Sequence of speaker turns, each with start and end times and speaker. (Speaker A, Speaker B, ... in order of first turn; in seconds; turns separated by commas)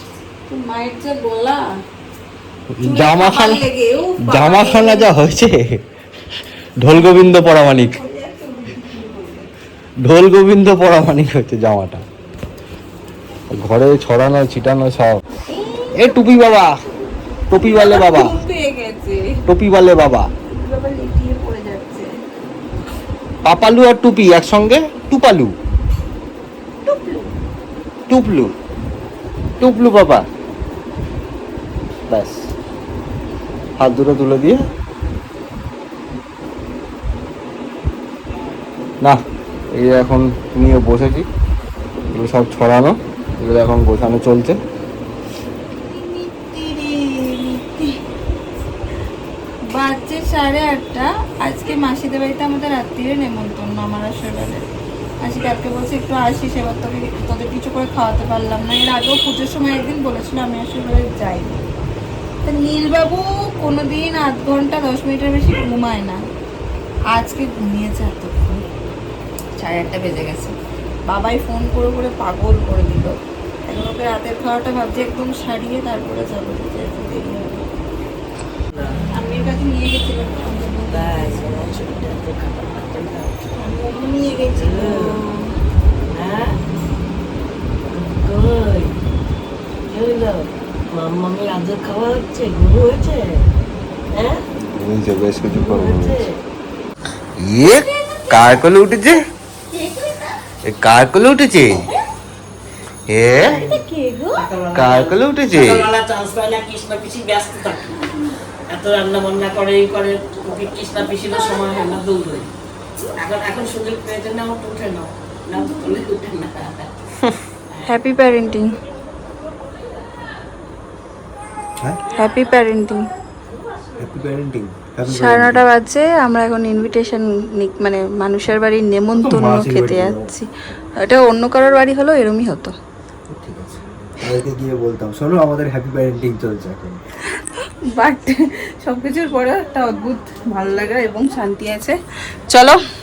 Speaker A: 0.5-1.6, Speaker B: 2.7-3.6, Speaker A: 2.8-5.1, Speaker B: 4.2-5.8, Speaker B: 6.8-8.0, Speaker A: 6.9-9.5, Speaker B: 10.0-12.0, Speaker B: 13.5-15.2, Speaker A: 15.5-16.2, Speaker B: 15.9-16.8, Speaker B: 17.5-18.3, Speaker A: 17.5-19.4, Speaker B: 19.5-20.3, Speaker A: 20.5-22.1, Speaker B: 23.4-25.5, Speaker A: 26.9-27.3, Speaker B: 28.1-28.5, Speaker B: 29.6-30.2, Speaker B: 32.1-32.5, Speaker B: 33.8-34.6, Speaker B: 39.7-41.3, Speaker B: 42.1-44.6, Speaker A: 45.9-47.9, Speaker A: 49.7-54.6, Speaker A: 55.2-61.6, Speaker A: 62.4-66.2, Speaker A: 67.1-68.6, Speaker A: 69.6-70.5, Speaker A: 71.1-77.7, Speaker A: 79.1-81.5, Speaker C: 80.9-83.4, Speaker A: 83.6-85.4, Speaker C: 84.6-85.2, Speaker C: 86.1-86.5, Speaker C: 87.9-88.9, Speaker C: 89.9-93.2, Speaker C: 94.1-94.4, Speaker B: 94.7-96.2, Speaker C: 95.4-96.3, Speaker B: 97.4-99.2, Speaker B: 100.7-101.8, Speaker B: 103.1-103.6, Speaker C: 103.5-103.8, Speaker C: 104.3-107.9, Speaker B: 104.7-105.9, Speaker C: 108.7-112.5, Speaker C: 113.1-116.9, Speaker A: 117.9-118.7, Speaker A: 122.1-123.0, Speaker B: 124.0-125.6, Speaker A: 125.1-130.5, Speaker B: 129.2-130.3, Speaker A: 131.0-132.7, Speaker B: 133.3-137.0, Speaker A: 137.9-142.0, Speaker A: 142.5-142.8